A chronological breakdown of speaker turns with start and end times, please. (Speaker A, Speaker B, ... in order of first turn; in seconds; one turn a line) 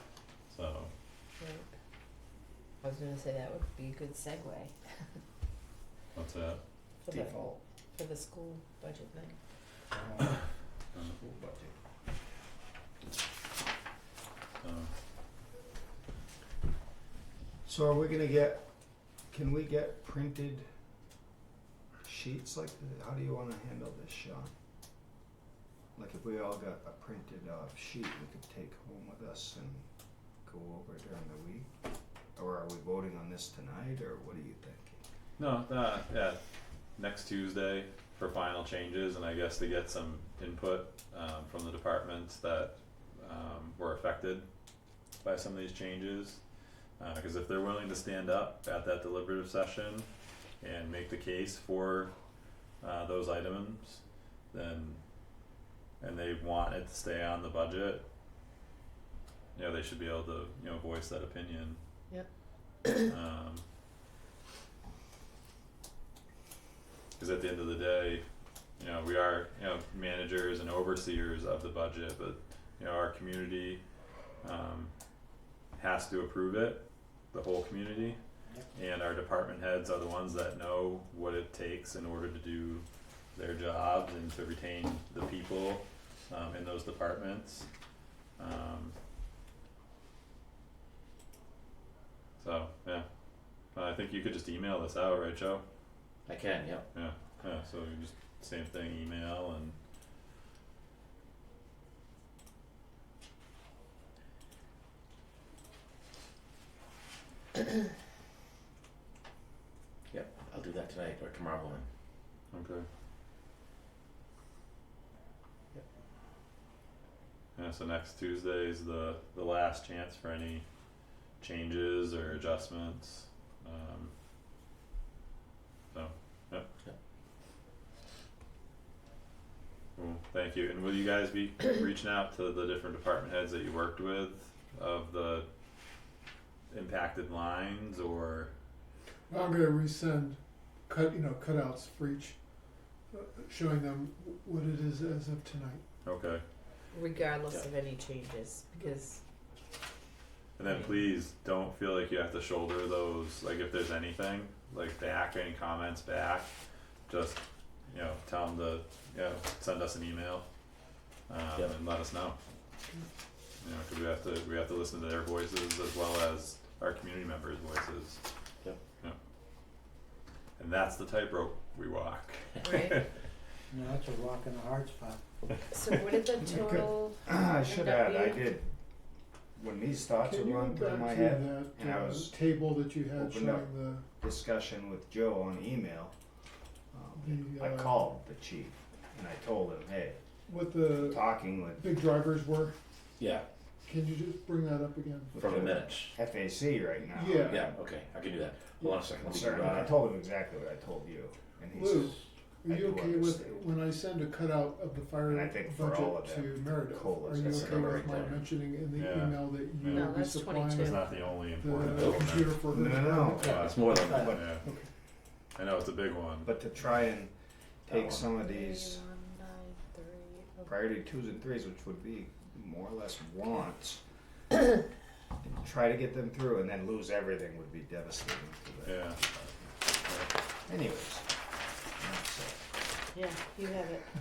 Speaker A: 0.5-0.9
Speaker B: 1.4-1.7
Speaker B: 2.8-5.0
Speaker A: 6.2-6.6
Speaker B: 7.0-9.4
Speaker C: 7.1-7.6
Speaker D: 9.9-10.3
Speaker C: 11.0-11.8
Speaker A: 14.6-14.9
Speaker C: 17.6-18.6
Speaker C: 19.3-20.7
Speaker C: 22.0-24.5
Speaker C: 25.9-29.8
Speaker C: 30.4-31.7
Speaker C: 32.4-35.0
Speaker A: 35.4-36.4
Speaker A: 37.0-44.5
Speaker A: 45.2-46.4
Speaker A: 47.0-50.1
Speaker A: 50.6-52.1
Speaker A: 52.8-55.0
Speaker A: 56.0-58.0
Speaker A: 59.5-61.8
Speaker A: 63.0-63.6
Speaker A: 67.2-68.2
Speaker A: 68.8-73.8
Speaker A: 74.4-74.9
Speaker A: 75.8-78.2
Speaker A: 78.7-87.7
Speaker A: 88.4-89.0
Speaker A: 92.4-93.1
Speaker A: 93.8-95.6
Speaker E: 96.3-96.9
Speaker A: 96.9-99.8
Speaker E: 110.1-111.9
Speaker A: 112.5-112.8
Speaker A: 117.6-120.7
Speaker A: 121.4-124.1
Speaker A: 125.9-126.7
Speaker A: 130.0-135.5
Speaker A: 136.7-138.5
Speaker F: 139.3-142.4
Speaker F: 143.1-145.8
Speaker A: 146.0-146.4
Speaker B: 146.9-149.2
Speaker A: 150.6-156.5
Speaker A: 157.1-160.5
Speaker A: 161.3-162.4
Speaker A: 163.6-168.2
Speaker A: 170.6-173.1
Speaker B: 172.6-173.0
Speaker D: 173.7-175.2
Speaker B: 175.7-178.5
Speaker C: 176.5-178.7
Speaker C: 179.6-182.5
Speaker F: 180.2-184.0
Speaker C: 183.1-186.2
Speaker C: 186.9-190.2
Speaker F: 187.2-188.0
Speaker F: 190.5-192.8
Speaker C: 190.8-191.9
Speaker E: 193.2-193.5
Speaker F: 193.8-195.5
Speaker E: 195.3-196.2
Speaker C: 195.4-197.8
Speaker F: 197.1-197.7
Speaker E: 197.4-199.9
Speaker C: 199.2-203.7
Speaker F: 199.6-199.9
Speaker F: 201.7-213.6
Speaker C: 205.2-208.2
Speaker E: 207.4-208.5
Speaker A: 208.9-212.6
Speaker B: 209.9-211.2
Speaker E: 211.9-212.4
Speaker C: 212.7-214.6
Speaker E: 213.4-214.5
Speaker D: 214.1-214.3
Speaker A: 214.3-214.7
Speaker F: 214.5-214.9
Speaker A: 215.6-216.5
Speaker C: 216.4-217.3
Speaker E: 217.9-218.3
Speaker C: 217.9-219.0
Speaker B: 218.3-220.7
Speaker C: 220.7-224.0
Speaker C: 225.4-229.8
Speaker A: 228.8-229.2
Speaker A: 230.0-230.3
Speaker C: 230.7-231.3
Speaker C: 232.0-232.6
Speaker B: 233.1-234.1